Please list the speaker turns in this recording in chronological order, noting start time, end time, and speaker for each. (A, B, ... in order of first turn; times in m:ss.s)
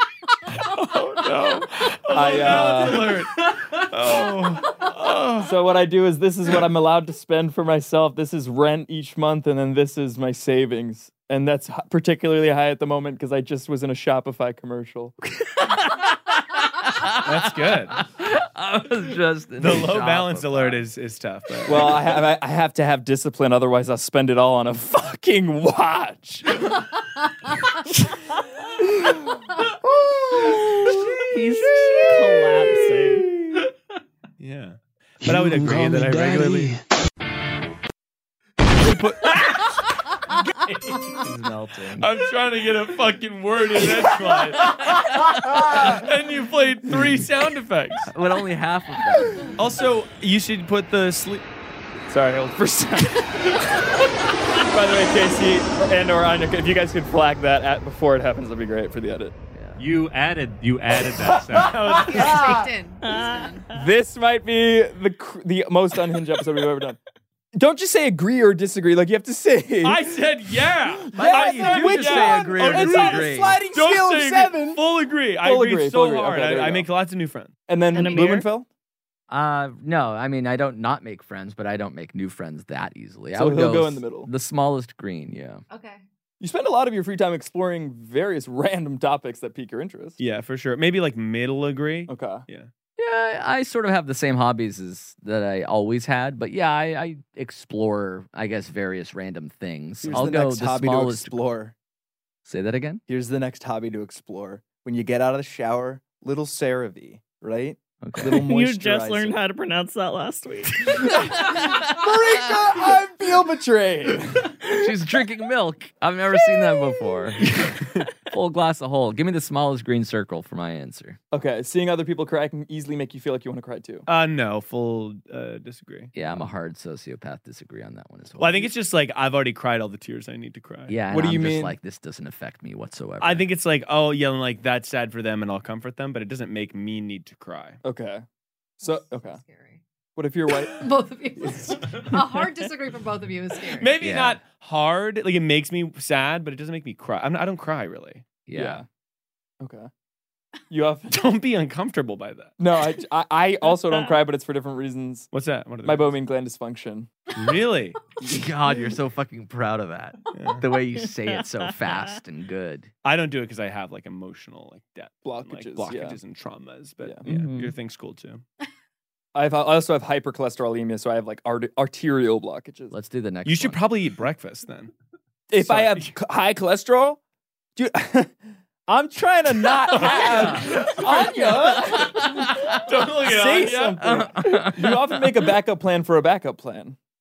0:00.5-0:05.5 A
0:02.1-0:03.2 B
0:05.4-0:15.1 B
0:15.4-0:20.9 C
0:17.2-0:18.0 A
0:19.6-0:22.0 A
0:21.7-0:26.8 B
0:28.8-0:33.6 B
0:31.2-0:33.3 D
0:34.4-0:36.8 A
0:35.6-0:36.6 C
0:38.8-0:39.9 A
0:41.1-0:42.1 C
0:42.0-0:48.1 A
0:44.7-0:45.2 C
0:48.1-0:49.6 C
0:49.6-0:51.4 A
0:52.1-0:53.8 B
0:54.5-0:59.4 B
0:59.5-0:59.8 C
0:59.8-1:01.8 E
1:01.2-1:02.7 B
1:01.6-1:02.4 A
1:01.9-1:03.7 F
1:03.0-1:03.7 D
1:03.7-1:07.0 B
1:07.6-1:10.1 B
1:09.8-1:17.6 A
1:11.0-1:14.8 B
1:11.1-1:13.6 C
1:15.4-1:16.9 B
1:17.7-1:18.7 B
1:17.9-1:18.5 D
1:19.3-1:25.6 C
1:23.4-1:24.3 B
1:25.7-1:26.0 F
1:26.4-1:30.2 B
1:30.2-1:32.7 A
1:32.1-1:32.4 B
1:33.0-1:41.3 C
1:40.0-1:41.7 B
1:42.4-1:43.0 C
1:43.1-1:49.4 B
1:48.0-1:48.4 C
1:48.4-1:51.0 D
1:50.9-1:54.7 B
1:51.4-1:51.8 C
1:54.6-2:01.2 C
2:01.3-2:04.1 B
2:04.1-2:06.1 A
2:06.1-2:08.7 C
2:08.4-2:11.0 A
2:10.9-2:13.5 C
2:11.1-2:11.8 B
2:13.2-2:17.8 A
2:17.8-2:18.2 B
2:18.8-2:19.8 F
2:18.8-2:19.4 B
2:20.2-2:20.9 B
2:20.6-2:24.0 F
2:21.5-2:22.0 B
2:23.7-2:28.2 A
2:24.0-2:24.4 C
2:28.5-2:28.8 C
2:28.5-2:28.8 B
2:29.6-2:29.9 B
2:30.7-2:31.2 B
2:31.1-2:32.6 A
2:32.6-2:35.3 B
2:35.3-2:36.2 A
2:35.8-2:37.1 B
2:37.4-2:38.0 A
2:38.2-2:42.9 C
2:40.4-2:40.7 A
2:43.0-2:48.4 A
2:45.2-2:46.2 B
2:47.3-2:47.7 D
2:49.3-2:53.0 B
2:52.9-2:53.8 C
2:53.4-2:54.9 A
2:55.5-2:57.2 B
2:55.6-2:56.1 A
2:57.8-3:07.0 B
2:59.9-3:02.8 C
2:59.9-3:02.3 A
3:02.8-3:04.2 A
3:04.0-3:05.1 C